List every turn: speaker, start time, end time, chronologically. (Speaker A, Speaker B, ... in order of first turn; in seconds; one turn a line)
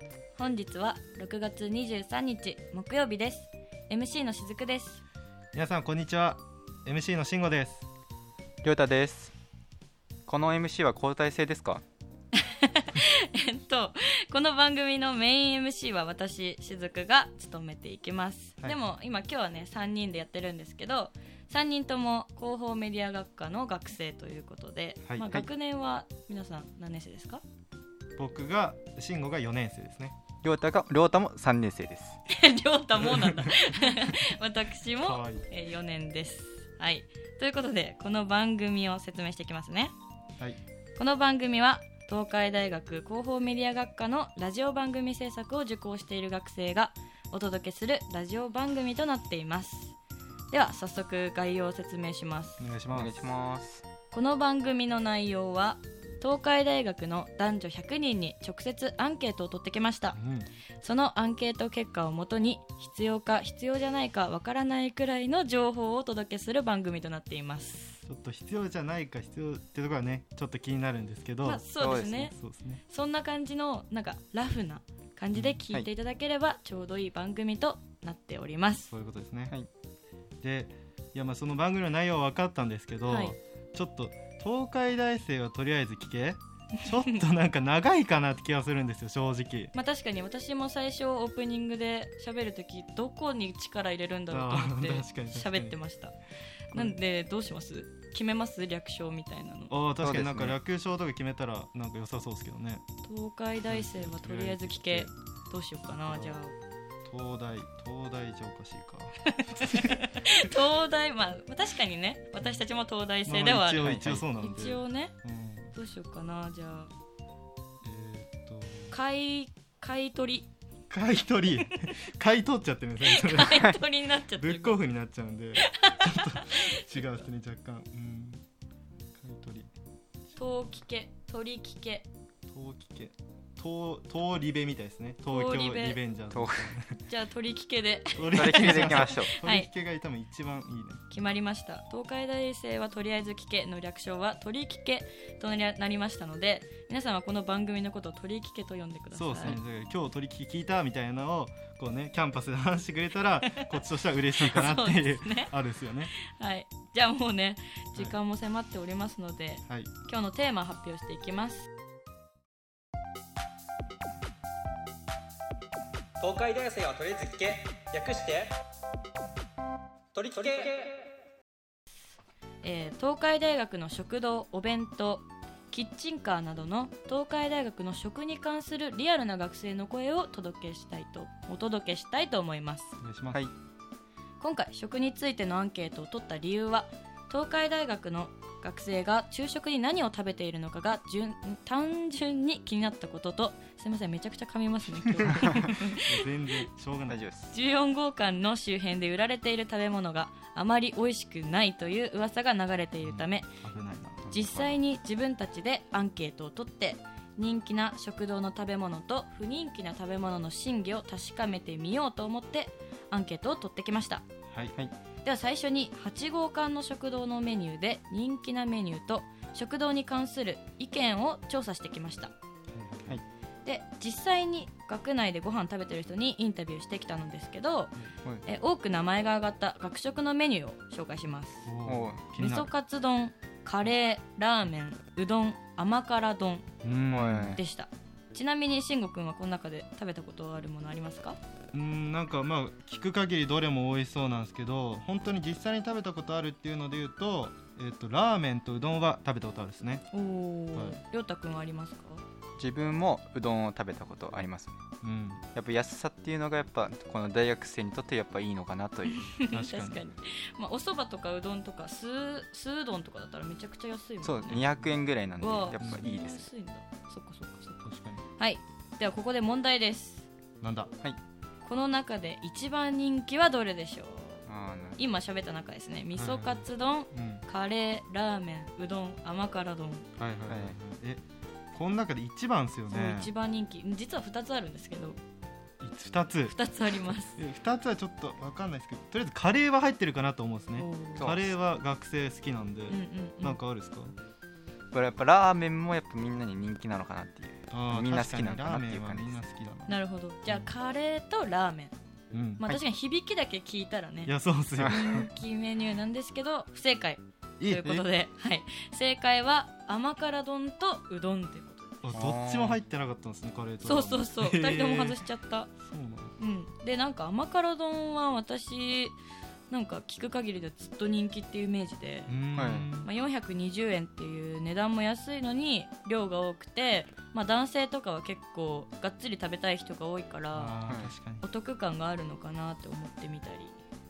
Speaker A: 0.4-5.0
Speaker B: 5.5-7.9
Speaker C: 8.6-9.3
Speaker C: 10.3-11.8
Speaker A: 12.3-27.4
Speaker B: 25.0-25.5
Speaker B: 28.2-30.1
Speaker C: 30.4-32.2
Speaker A: 32.3-39.9
Speaker B: 33.0-34.0
Speaker B: 35.0-35.5
Speaker A: 41.0-50.0
Speaker A: 50.5-52.7
Speaker B: 52.6-53.3
Speaker C: 52.9-53.9
Speaker A: 54.1-60.2
Speaker B: 60.1-60.5
Speaker A: 60.8-68.0
Speaker B: 68.1-71.7
Speaker A: 71.4-72.3
Speaker C: 71.8-72.3
Speaker B: 72.3-72.8
Speaker A: 72.9-78.9
Speaker B: 78.9-79.5
Speaker B: 80.4-89.7
Speaker A: 83.1-83.4
Speaker A: 86.9-87.1
Speaker A: 89.7-96.2
Speaker B: 94.3-95.8
Speaker A: 96.7-99.8
Speaker B: 99.7-102.8
Speaker C: 100.0-100.6
Speaker A: 103.0-106.6
Speaker B: 103.7-105.1
Speaker B: 105.9-106.4
Speaker B: 107.0-110.3
Speaker A: 109.2-115.2
Speaker B: 113.2-115.8
Speaker C: 113.8-114.2
Speaker A: 115.7-116.9
Speaker B: 117.8-119.0
Speaker A: 118.9-120.5
Speaker B: 120.9-123.8
Speaker A: 123.0-124.8
Speaker B: 124.3-128.4
Speaker A: 125.6-127.2
Speaker B: 129.2-129.7
Speaker A: 130.4-132.1
Speaker B: 132.5-137.1
Speaker A: 135.3-136.0
Speaker C: 136.3-136.8
Speaker A: 137.1-139.7
Speaker B: 138.2-141.0
Speaker C: 138.3-139.3
Speaker A: 141.1-149.6
Speaker B: 149.1-156.1
Speaker A: 154.4-155.5
Speaker A: 156.1-161.7
Speaker B: 159.7-159.9
Speaker D: 166.2-168.5
Speaker D: 170.1-171.0
Speaker A: 172.6-183.0
Speaker B: 183.0-183.4
Speaker A: 184.4-196.6
Speaker B: 195.0-197.2
Speaker C: 197.1-197.5
Speaker A: 197.5-203.5
Speaker B: 203.0-204.2
Speaker C: 204.2-204.8
Speaker A: 204.3-214.3
Speaker A: 215.2-222.3
Speaker B: 222.7-223.2
Speaker A: 223.7-231.7
Speaker B: 231.7-232.7
Speaker C: 231.8-232.2
Speaker A: 232.4-236.7
Speaker B: 236.8-237.6
Speaker C: 237.1-237.6
Speaker A: 237.5-241.4
Speaker B: 241.7-250.1
Speaker A: 250.1-252.2
Speaker B: 250.7-251.0
Speaker C: 252.6-254.8
Speaker B: 255.0-255.4
Speaker C: 255.6-259.3
Speaker A: 259.1-264.7
Speaker B: 259.5-260.1
Speaker C: 264.2-266.5
Speaker A: 265.4-267.8
Speaker B: 265.8-266.1
Speaker B: 267.8-268.2
Speaker A: 268.4-270.3
Speaker B: 270.6-270.9
Speaker A: 271.6-274.5
Speaker C: 274.5-275.0
Speaker A: 275.0-280.1
Speaker B: 276.1-277.4
Speaker B: 280.2-281.2
Speaker C: 280.5-280.8
Speaker B: 281.7-283.3
Speaker A: 282.9-285.2
Speaker B: 285.8-286.6
Speaker A: 286.5-287.4
Speaker B: 287.1-294.1
Speaker A: 290.8-291.3
Speaker C: 291.2-291.5
Speaker A: 292.9-293.6
Speaker C: 294.9-299.4
Speaker B: 297.7-300.7
Speaker A: 299.9-301.9
Speaker B: 302.3-302.6
Speaker A: 302.6-304.3
Speaker B: 304.3-305.3
Speaker A: 304.9-312.1
Speaker B: 307.6-308.1
Speaker B: 312.0-315.2
Speaker C: 312.1-312.8
Speaker A: 313.8-315.7
Speaker B: 315.8-316.4
Speaker A: 316.4-319.1
Speaker A: 319.7-322.4
Speaker B: 322.3-323.1
Speaker C: 322.6-322.9
Speaker A: 323.0-333.8
Speaker B: 330.5-331.4
Speaker C: 330.9-331.1